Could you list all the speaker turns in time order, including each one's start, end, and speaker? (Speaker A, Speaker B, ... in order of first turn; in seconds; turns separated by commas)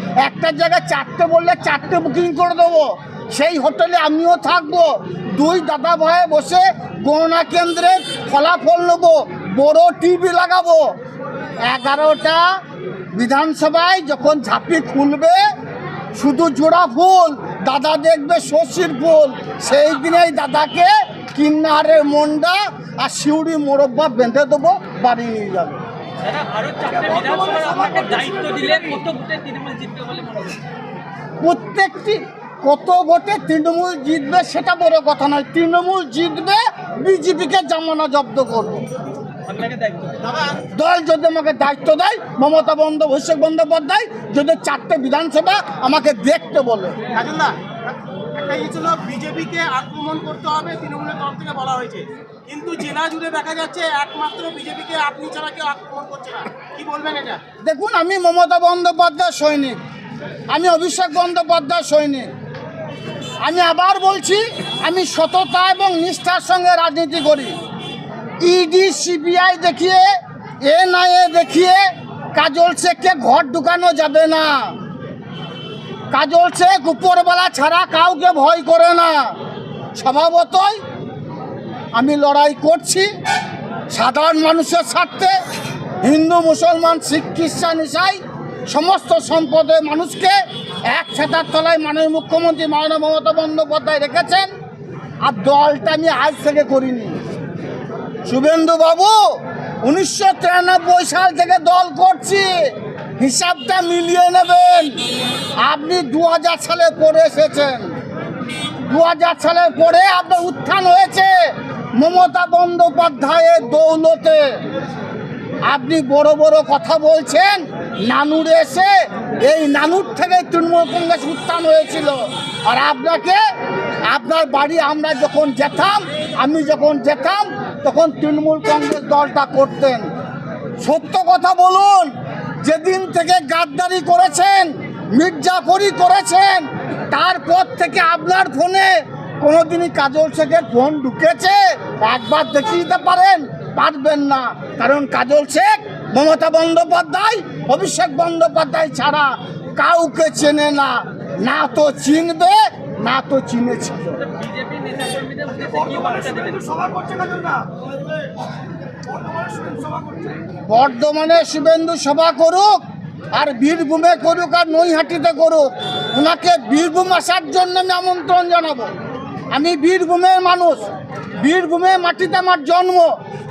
Speaker A: 0.2-10.9, Speaker A: 11.6-12.4, Speaker A: 13.1-15.3, Speaker A: 16.1-25.8, Speaker B: 26.2-30.6, Speaker C: 27.0-28.7, Speaker A: 31.4-38.9, Speaker B: 39.5-40.2, Speaker C: 40.2-40.6, Speaker A: 40.7-47.0, Speaker C: 47.1-57.4, Speaker A: 57.6-59.8, Speaker A: 60.5-62.3, Speaker A: 63.4-67.6, Speaker A: 68.4-70.0, Speaker A: 70.6-71.8, Speaker A: 72.3-74.7, Speaker A: 76.1-79.3, Speaker A: 80.0-80.8, Speaker A: 81.9-83.1, Speaker A: 83.9-85.3, Speaker A: 86.0-90.3, Speaker A: 90.9-94.5, Speaker A: 95.2-97.2, Speaker A: 98.2-105.0, Speaker A: 105.6-108.0, Speaker A: 108.8-111.3, Speaker A: 112.0-114.6, Speaker A: 115.7-123.4, Speaker A: 124.1-130.1, Speaker A: 130.8-154.2, Speaker B: 154.2-156.9, Speaker C: 156.9-157.7, Speaker C: 159.5-160.0, Speaker A: 160.7-162.8, Speaker A: 163.3-168.9, Speaker A: 169.5-170.9, Speaker A: 171.4-173.1